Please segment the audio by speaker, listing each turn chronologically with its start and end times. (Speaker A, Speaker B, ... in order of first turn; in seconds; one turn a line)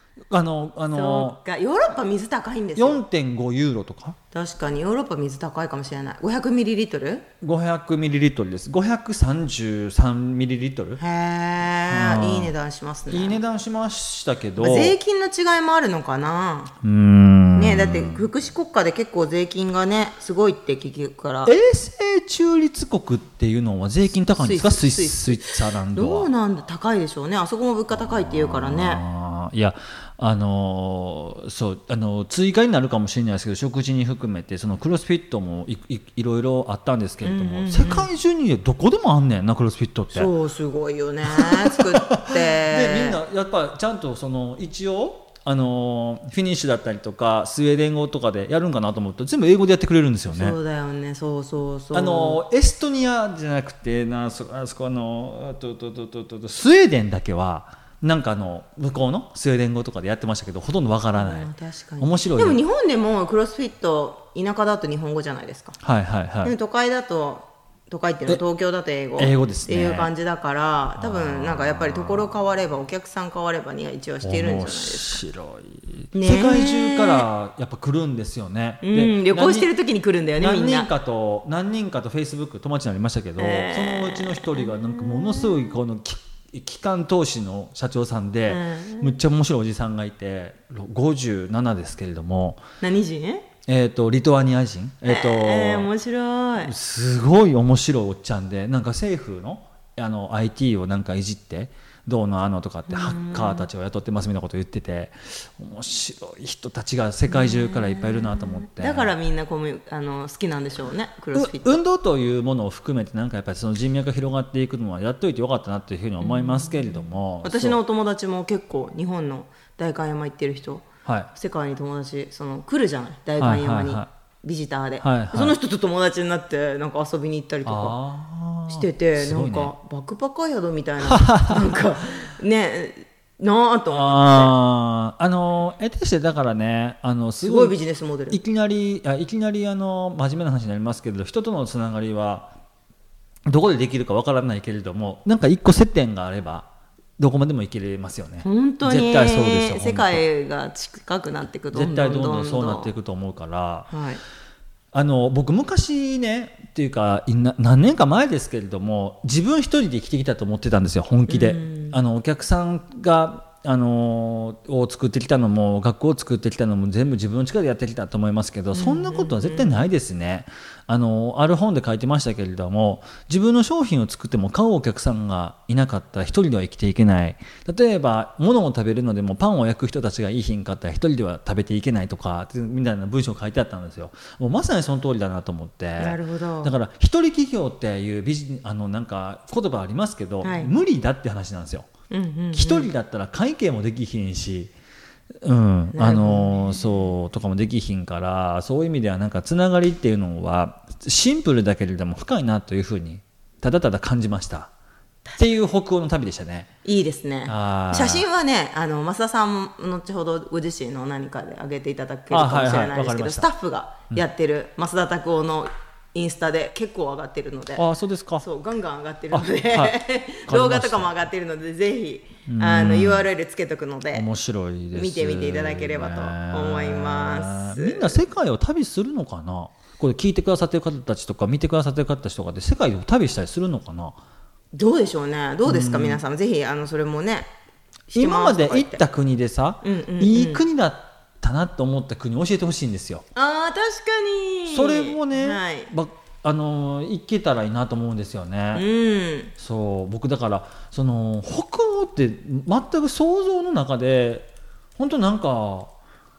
Speaker A: 0.3-1.4
Speaker B: 0.9-3.0
Speaker A: 2.8-4.2
Speaker B: 4.3-7.2
Speaker A: 7.4-11.0
Speaker B: 11.0-13.4
Speaker A: 11.9-12.5
Speaker A: 13.1-14.9
Speaker B: 14.6-16.7
Speaker A: 16.8-18.3
Speaker B: 17.5-21.5
Speaker A: 21.4-26.3
Speaker B: 24.4-29.0
Speaker A: 27.9-40.3
Speaker B: 37.2-38.1
Speaker B: 40.1-43.2
Speaker A: 41.3-50.6
Speaker B: 50.3-52.4
Speaker A: 51.9-62.6
Speaker B: 61.1-65.8
Speaker A: 65.8-66.5
Speaker B: 66.4-75.2
Speaker A: 69.2-70.1
Speaker A: 71.0-72.3
Speaker A: 74.2-79.7
Speaker B: 76.1-77.3
Speaker B: 78.8-80.9
Speaker A: 80.4-92.6
Speaker B: 83.4-85.7
Speaker B: 88.5-89.2
Speaker B: 92.8-93.5
Speaker A: 93.7-95.9
Speaker B: 95.0-96.7
Speaker A: 96.6-109.1
Speaker B: 102.9-103.7
Speaker B: 107.3-111.8
Speaker A: 111.3-117.8
Speaker B: 116.2-128.0
Speaker A: 121.0-121.3
Speaker A: 123.4-124.0
Speaker A: 125.0-125.5
Speaker A: 127.7-129.7
Speaker B: 128.7-134.5
Speaker A: 131.0-131.8
Speaker A: 133.9-137.8
Speaker B: 137.4-138.4
Speaker A: 138.3-142.5
Speaker A: 143.4-146.7
Speaker A: 147.2-150.2
Speaker B: 148.4-152.9
Speaker A: 151.7-153.9
Speaker B: 153.9-154.2
Speaker A: 154.9-191.9
Speaker B: 161.3-162.0
Speaker B: 168.7-169.8
Speaker B: 186.0-186.7
Speaker B: 190.4-190.7
Speaker B: 192.1-192.9
Speaker A: 192.5-194.7
Speaker A: 195.4-204.7
Speaker B: 195.9-197.0
Speaker A: 205.4-206.7
Speaker B: 206.8-217.8
Speaker A: 207.4-208.2
Speaker A: 212.3-213.5
Speaker A: 217.8-218.4
Speaker B: 218.4-224.3
Speaker A: 219.3-221.1
Speaker A: 222.5-223.3
Speaker A: 224.1-234.2
Speaker B: 224.9-228.2
Speaker B: 234.7-237.5
Speaker A: 235.7-236.2
Speaker B: 238.1-239.0
Speaker A: 238.1-243.2
Speaker B: 239.8-240.6
Speaker B: 243.3-245.9
Speaker A: 244.7-248.8
Speaker B: 248.7-249.5
Speaker A: 249.6-255.9